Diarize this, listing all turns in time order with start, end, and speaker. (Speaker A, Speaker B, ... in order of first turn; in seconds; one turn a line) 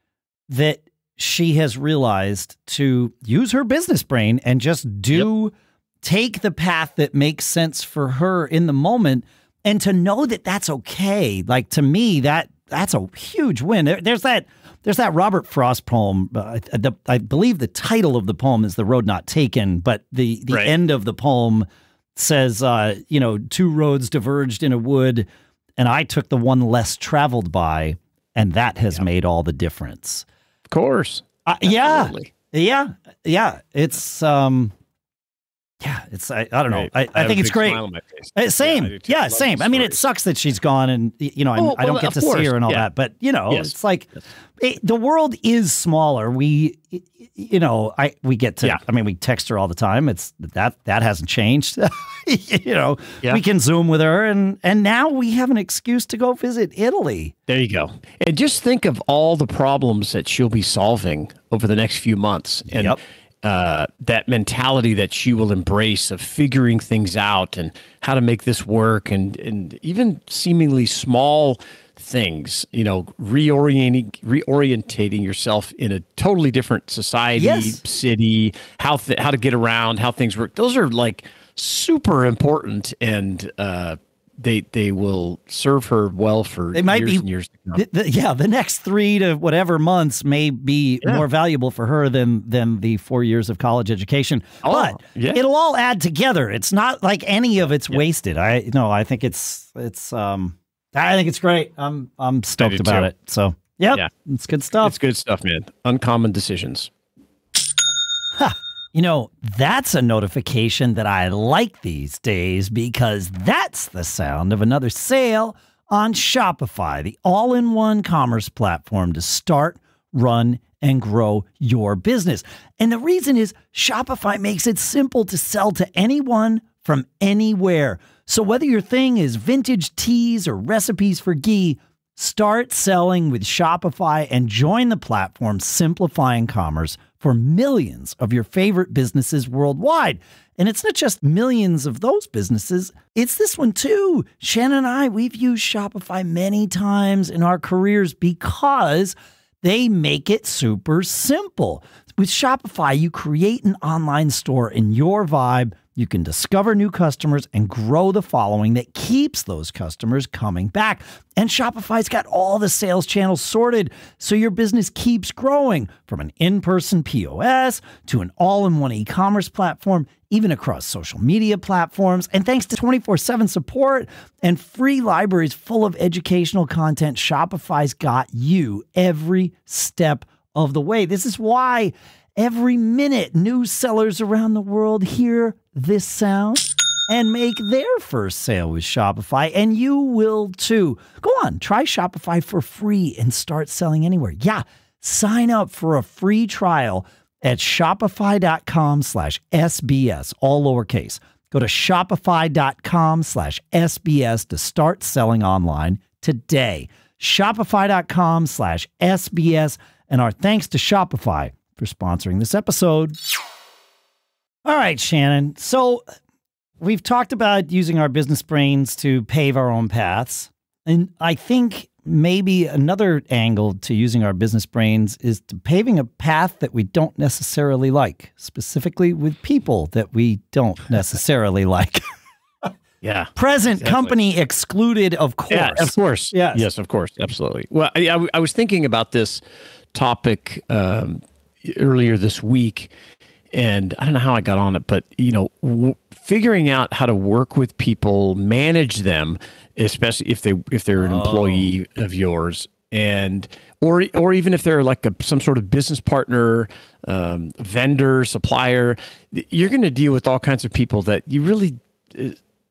Speaker A: 0.5-25.3
Speaker A: 25.8-30.3
Speaker B: 30.7-32.3
Speaker A: 31.5-34.7
Speaker A: 35.8-37.8
Speaker B: 36.7-40.0
Speaker A: 38.4-57.4
Speaker B: 41.6-42.9
Speaker B: 43.5-43.8
Speaker B: 57.5-87.8
Speaker A: 62.7-63.0
Speaker A: 77.4-77.8
Speaker A: 86.7-104.9
Speaker B: 94.6-95.4
Speaker B: 102.6-103.1
Speaker B: 104.8-106.9
Speaker A: 108.4-213.2
Speaker A: 214.7-216.0
Speaker A: 216.8-232.0
Speaker B: 233.0-234.2
Speaker A: 233.3-236.7
Speaker B: 235.5-239.4
Speaker B: 239.9-242.9
Speaker B: 243.5-262.4
Speaker A: 251.0-251.7